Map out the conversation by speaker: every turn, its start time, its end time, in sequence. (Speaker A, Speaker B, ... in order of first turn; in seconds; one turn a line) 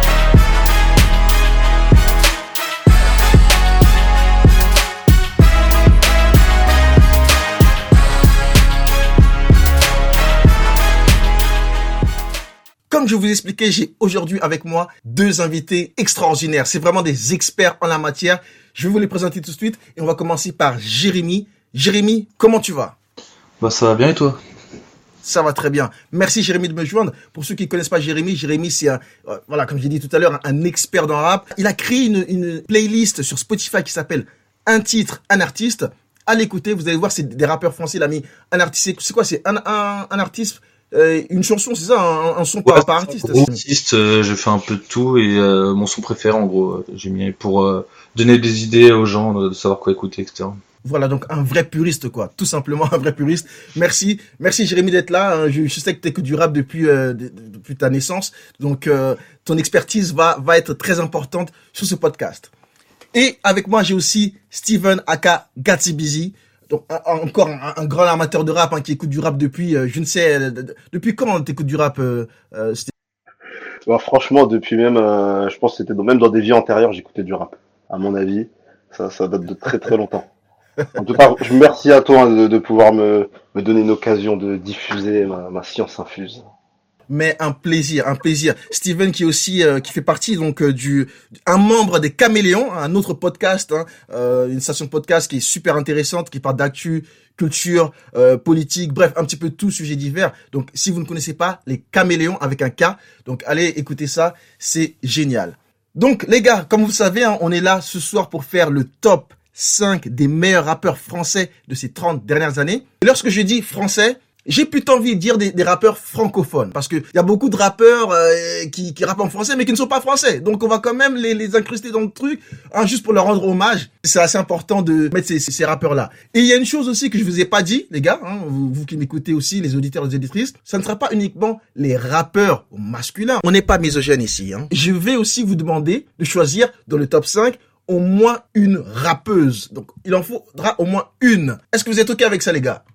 Speaker A: 12.9-23.0
Speaker B: 23.6-24.4
Speaker A: 25.2-43.6
Speaker B: 42.7-50.6
Speaker A: 50.8-62.5
Speaker A: 63.1-72.9
Speaker C: 73.9-80.3
Speaker C: 81.0-86.4
Speaker A: 87.1-142.8